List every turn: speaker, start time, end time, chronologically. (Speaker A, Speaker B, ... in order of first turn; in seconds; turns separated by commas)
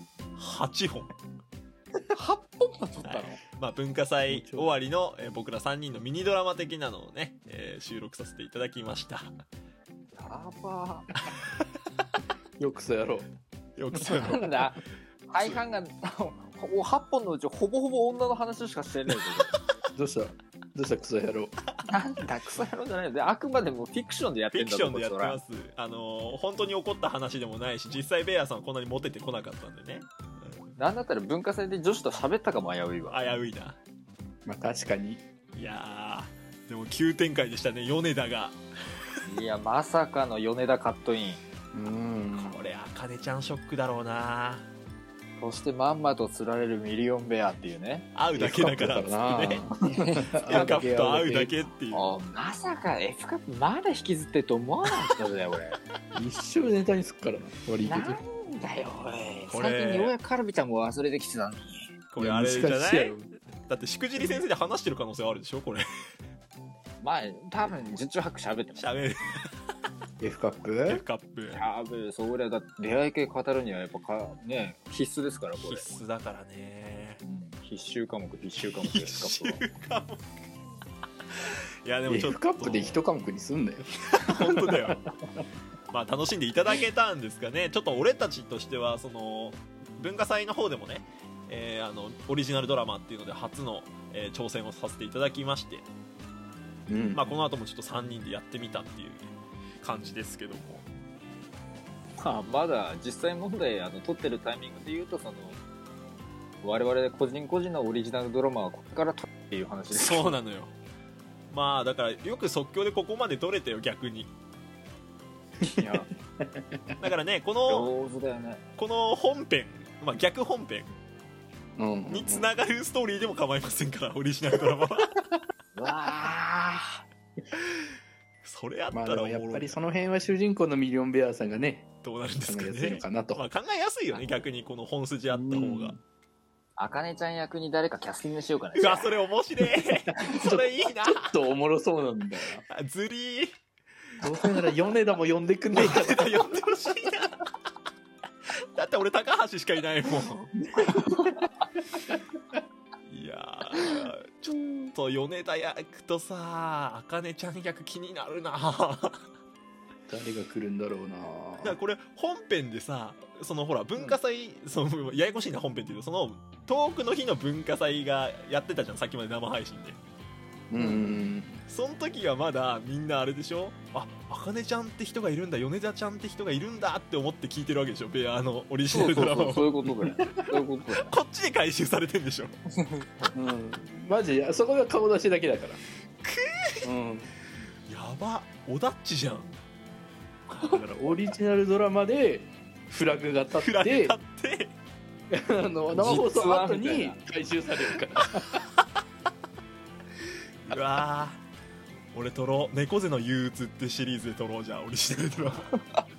Speaker A: 0.4-1.1, Speaker B: 2.1-3.4, Speaker A: 3.0-9.3, Speaker C: 4.3-4.7, Speaker B: 10.2-11.1, Speaker C: 12.6-13.3, Speaker A: 13.8-14.6, Speaker B: 14.1-19.5, Speaker C: 19.9-21.5, Speaker B: 21.9-25.4, Speaker A: 24.5-30.7, Speaker B: 30.8-33.2, Speaker A: 33.1-33.8, Speaker C: 34.5-35.2, Speaker A: 35.5-38.6, Speaker B: 39.2-41.4, Speaker C: 41.7-42.6, Speaker A: 42.4-44.7, Speaker B: 45.4-48.1, Speaker A: 48.1-49.6, Speaker C: 48.4-51.6, Speaker A: 50.4-52.2, Speaker B: 50.5-50.8, Speaker B: 51.9-55.8, Speaker C: 56.1-58.2, Speaker B: 57.8-62.0, Speaker A: 59.5-60.1, Speaker A: 62.1-65.9, Speaker C: 62.2-63.3, Speaker B: 67.0-69.0, Speaker A: 68.8-69.5, Speaker C: 70.2-71.0, Speaker A: 70.9-71.6, Speaker B: 71.5-75.9, Speaker A: 75.6-77.2, Speaker B: 77.2-79.6, Speaker A: 78.7-80.2, Speaker A: 81.5-83.0, Speaker C: 82.1-85.4, Speaker A: 84.0-85.0, Speaker A: 85.9-95.9, Speaker C: 96.9-97.4, Speaker A: 97.1-100.9, Speaker B: 102.2-105.6, Speaker B: 106.6-110.4, Speaker A: 109.9-110.7, Speaker A: 111.5-114.3, Speaker B: 115.6-116.1, Speaker C: 115.6-116.6, Speaker A: 117.0-117.9, Speaker B: 117.7-118.6, Speaker A: 118.8-120.9, Speaker C: 121.8-122.5, Speaker A: 122.1-125.2, Speaker B: 125.8-127.0, Speaker A: 128.4-129.8, Speaker C: 128.9-131.8, Speaker A: 132.0-135.9, Speaker C: 132.5-133.4, Speaker C: 135.3-136.0, Speaker B: 136.8-139.3, Speaker A: 138.8-141.3, Speaker C: 140.3-142.6, Speaker A: 142.7-143.5, Speaker C: 144.2-146.6, Speaker A: 145.7-147.4, Speaker A: 148.8-150.6, Speaker C: 150.8-151.4, Speaker A: 153.1-159.2, Speaker C: 160.1-161.8, Speaker A: 161.6-170.0, Speaker C: 170.7-171.6, Speaker B: 170.8-171.2, Speaker A: 171.7-179.7, Speaker B: 178.9-181.1, Speaker A: 180.9-182.5, Speaker C: 183.3-185.8, Speaker A: 186.2-186.8, Speaker C: 186.8-187.3, Speaker A: 187.9-189.6, Speaker A: 190.5-190.9, Speaker C: 190.6-194.2, Speaker A: 193.6-194.8, Speaker C: 195.3-198.6, Speaker B: 196.0-197.2, Speaker A: 200.7-201.4, Speaker A: 202.1-205.7